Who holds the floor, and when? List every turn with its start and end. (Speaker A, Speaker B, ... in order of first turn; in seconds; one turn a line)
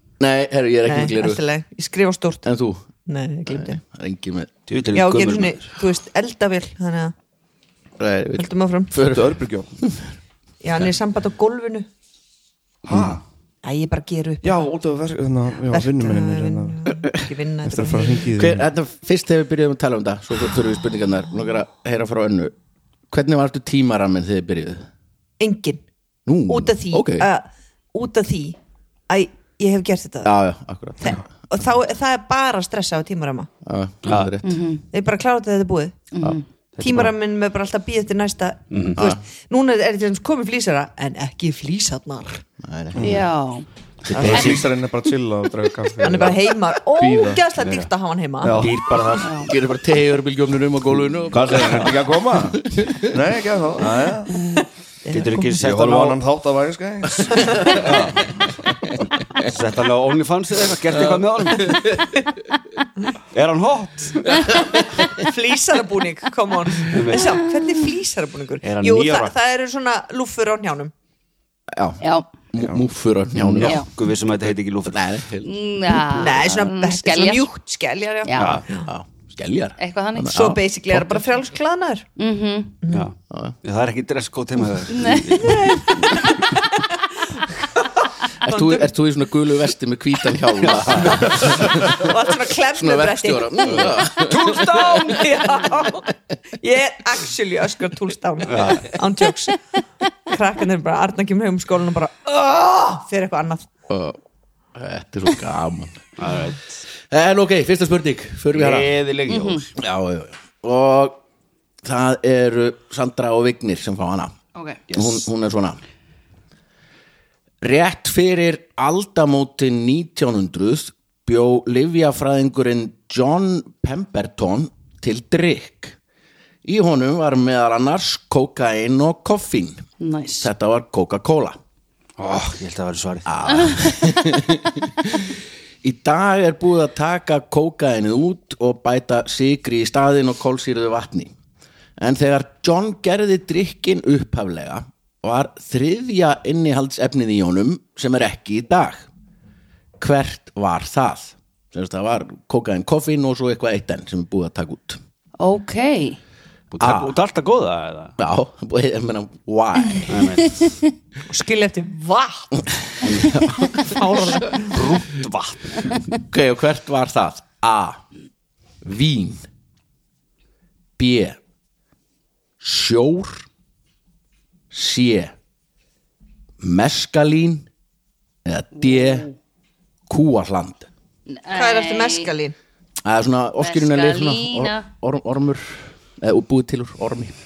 Speaker A: 0.2-1.4
Speaker B: 0.8-2.5
Speaker A: 2.4-2.9
Speaker B: 3.1-3.8
Speaker A: 3.5-4.5
Speaker C: 4.7-5.7
Speaker B: 4.9-7.1
Speaker A: 8.0-10.1
Speaker B: 8.4-9.0
Speaker D: 9.1-9.7
Speaker B: 10.6-11.9
Speaker D: 12.9-13.2
Speaker A: 12.9-13.2
Speaker B: 13.6-14.6
Speaker D: 14.4-16.9
Speaker B: 15.7-18.3
Speaker D: 17.6-18.6
Speaker A: 18.3-22.5
Speaker A: 23.1-24.9
Speaker B: 25.4-25.8
Speaker A: 26.2-27.3
Speaker B: 26.5-28.6
Speaker B: 29.1-30.3
Speaker A: 30.2-31.2
Speaker B: 31.0-33.5
Speaker A: 33.6-34.6
Speaker C: 34.0-34.3
Speaker E: 34.4-34.8
Speaker B: 34.9-36.1
Speaker E: 36.1-36.4
Speaker C: 36.8-37.1
Speaker B: 36.8-42.5
Speaker C: 38.7-39.0
Speaker A: 42.6-43.1
Speaker D: 43.0-43.2
Speaker E: 43.0-43.7
Speaker A: 44.1-44.6
Speaker C: 44.1-44.7
Speaker D: 44.2-47.4
Speaker B: 44.2-44.5
Speaker B: 46.0-48.6
Speaker C: 47.6-47.9
Speaker D: 48.4-49.1
Speaker C: 48.6-49.3
Speaker E: 49.2-49.5
Speaker A: 49.4-52.0
Speaker D: 51.3-54.4
Speaker C: 51.5-51.9
Speaker A: 52.6-53.1
Speaker B: 54.6-55.4
Speaker C: 55.1-56.2
Speaker D: 55.5-58.2
Speaker B: 57.5-57.8
Speaker C: 57.8-58.2
Speaker C: 59.4-62.0
Speaker A: 61.5-62.0
Speaker C: 63.3-64.5
Speaker B: 65.1-70.9
Speaker C: 66.8-67.4
Speaker C: 68.6-69.3
Speaker A: 71.7-72.0
Speaker E: 72.0-72.3
Speaker A: 72.5-73.8
Speaker C: 73.4-75.1
Speaker E: 73.6-73.9
Speaker A: 74.9-76.2
Speaker E: 75.4-77.5
Speaker B: 76.1-78.9
Speaker E: 78.2-78.6
Speaker C: 78.4-78.6
Speaker A: 78.7-81.2
Speaker E: 79.8-80.5
Speaker B: 80.3-82.1
Speaker E: 82.2-82.8
Speaker B: 82.8-83.1
Speaker C: 82.9-86.4
Speaker A: 83.3-83.6
Speaker E: 84.9-85.6
Speaker B: 85.4-86.8
Speaker B: 87.6-88.9
Speaker A: 88.4-92.2
Speaker C: 90.6-91.5
Speaker B: 91.0-99.6
Speaker A: 92.7-94.9
Speaker C: 93.8-95.5
Speaker C: 98.5-98.9
Speaker B: 100.3-103.7
Speaker A: 103.9-104.2
Speaker A: 104.7-106.4
Speaker C: 106.2-106.8
Speaker A: 107.1-109.0
Speaker C: 108.5-109.7
Speaker E: 109.3-109.7
Speaker A: 109.8-111.2
Speaker A: 111.8-114.3
Speaker E: 114.5-114.8
Speaker C: 114.9-115.2
Speaker A: 114.9-115.8
Speaker A: 117.6-126.0
Speaker A: 126.7-129.9
Speaker E: 130.0-130.5
Speaker A: 130.4-131.6
Speaker C: 132.2-133.8
Speaker A: 133.2-141.3
Speaker A: 142.0-149.1
Speaker A: 150.0-155.0
Speaker E: 155.4-156.2
Speaker C: 156.7-158.2
Speaker A: 156.8-157.1
Speaker A: 158.2-160.4
Speaker C: 160.1-160.7
Speaker E: 160.5-160.8
Speaker B: 161.3-162.6
Speaker A: 162.7-164.1
Speaker C: 163.0-163.4
Speaker B: 163.8-164.8
Speaker C: 164.5-166.0
Speaker A: 166.2-168.0
Speaker A: 168.8-169.5
Speaker A: 171.0-171.4
Speaker A: 172.6-173.5
Speaker A: 174.7-175.3
Speaker A: 176.6-177.7
Speaker A: 178.4-179.3
Speaker A: 180.1-180.9
Speaker E: 181.3-182.3
Speaker B: 181.5-182.6
Speaker A: 183.0-187.3
Speaker E: 183.6-184.9